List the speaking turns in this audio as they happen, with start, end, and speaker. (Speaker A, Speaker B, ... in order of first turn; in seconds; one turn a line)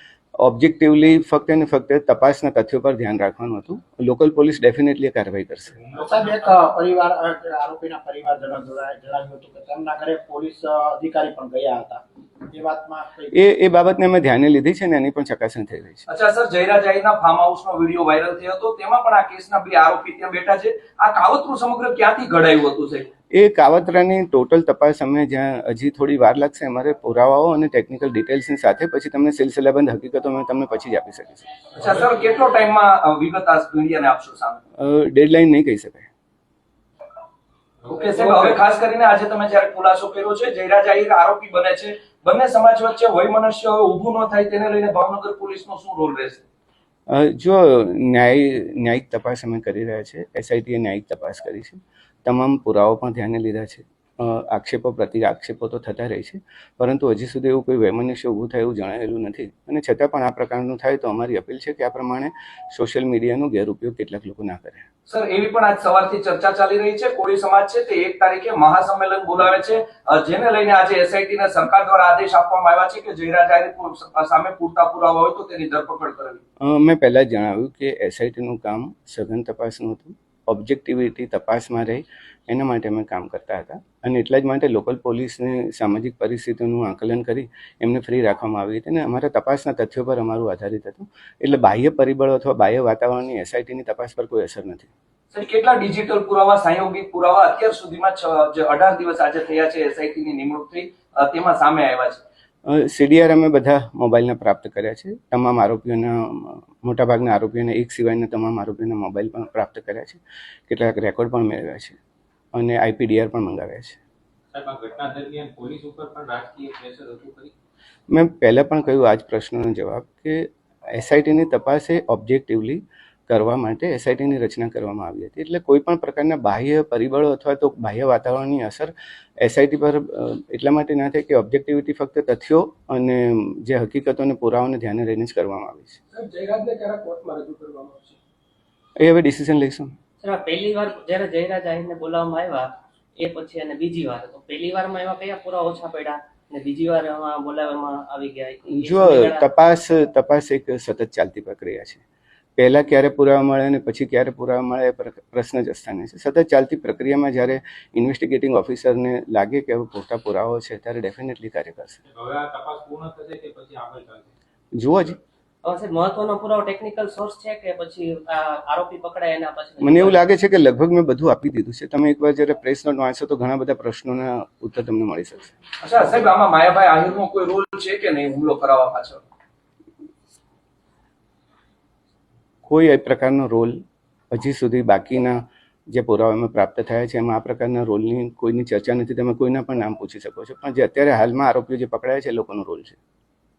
Speaker A: 0.4-5.7
Speaker B: 5.7-7.0
Speaker C: 5.9-13.4
Speaker A: 13.3-16.0
Speaker D: 16.1-23.1
Speaker A: 23.3-31.5
Speaker D: 31.7-34.6
Speaker A: 34.8-36.1
Speaker B: 37.8-38.4
Speaker D: 37.9-46.4
Speaker A: 47.1-64.8
Speaker D: 65.1-76.4
Speaker A: 76.6-94.9
Speaker D: 95.3-102.2
Speaker A: 102.7-112.0
Speaker A: 112.5-114.0
Speaker B: 114.5-117.5
Speaker A: 118.1-136.0
Speaker E: 136.1-138.2
Speaker A: 139.0-139.9
Speaker F: 140.2-149.4
Speaker A: 148.7-152.0
Speaker A: 152.6-162.0
Speaker B: 162.0-164.3
Speaker A: 164.8-165.2
Speaker F: 165.6-170.2
Speaker A: 169.8-175.5
Speaker D: 175.8-179.2
Speaker A: 182.7-183.8
Speaker A: 184.3-192.9